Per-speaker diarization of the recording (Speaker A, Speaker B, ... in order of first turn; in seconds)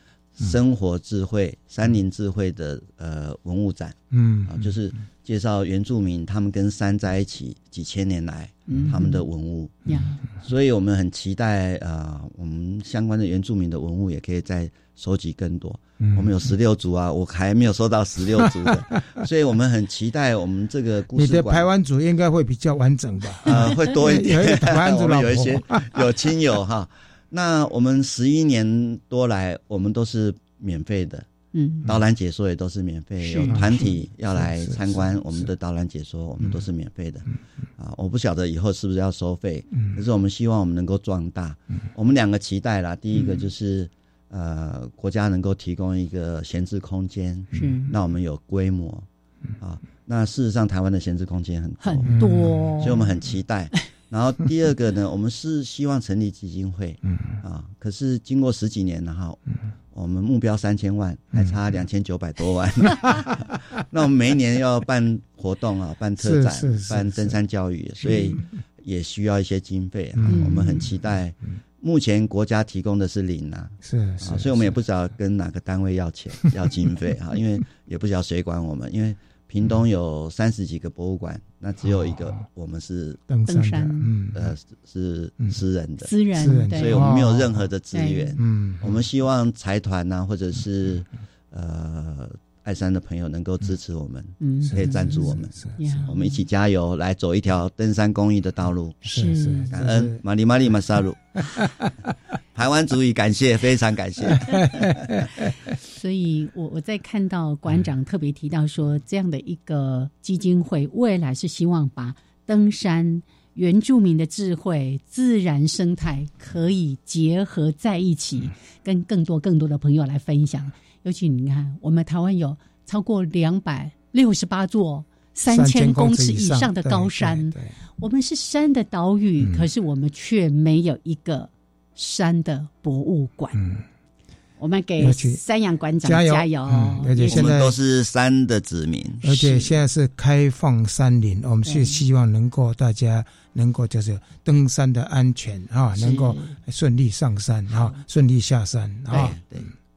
Speaker A: 0.4-9.8, 10.4-21.7, 23.4-31.2, 31.8-37.3, 37.8-49.0, 49.6-52.1, 52.8-59.4, 59.9-83.2, 84.3-86.1, 86.7-99.0, 99.7-101.5, 102.5-105.2, 137.3-139.6, 149.1-149.7
Speaker B: 4.1-4.5, 16.0-16.3, 21.1-25.9, 33.5-35.5, 52.1-52.4, 66.2-67.3, 68.1-68.4, 70.2-70.5, 73.8-74.7, 83.3-84.5, 86.3-87.6, 88.4-89.0, 94.8-95.8, 99.1-100.2, 104.5-105.1, 125.5-127.7, 129.4-129.7, 133.5-133.8, 135.0-135.4, 136.0-137.8, 139.2-149.4
Speaker C: 8.7-9.2, 9.9-10.2, 31.5-31.9, 33.2-33.6, 43.1-43.4, 47.5-47.9, 51.8-53.1, 70.3-70.8, 83.5-84.1, 86.0-87.2, 87.9-88.4, 94.4-96.3, 99.0-99.7, 105.8-133.6, 134.6-137.5, 141.6-142.0, 145.9-146.5, 147.7-148.0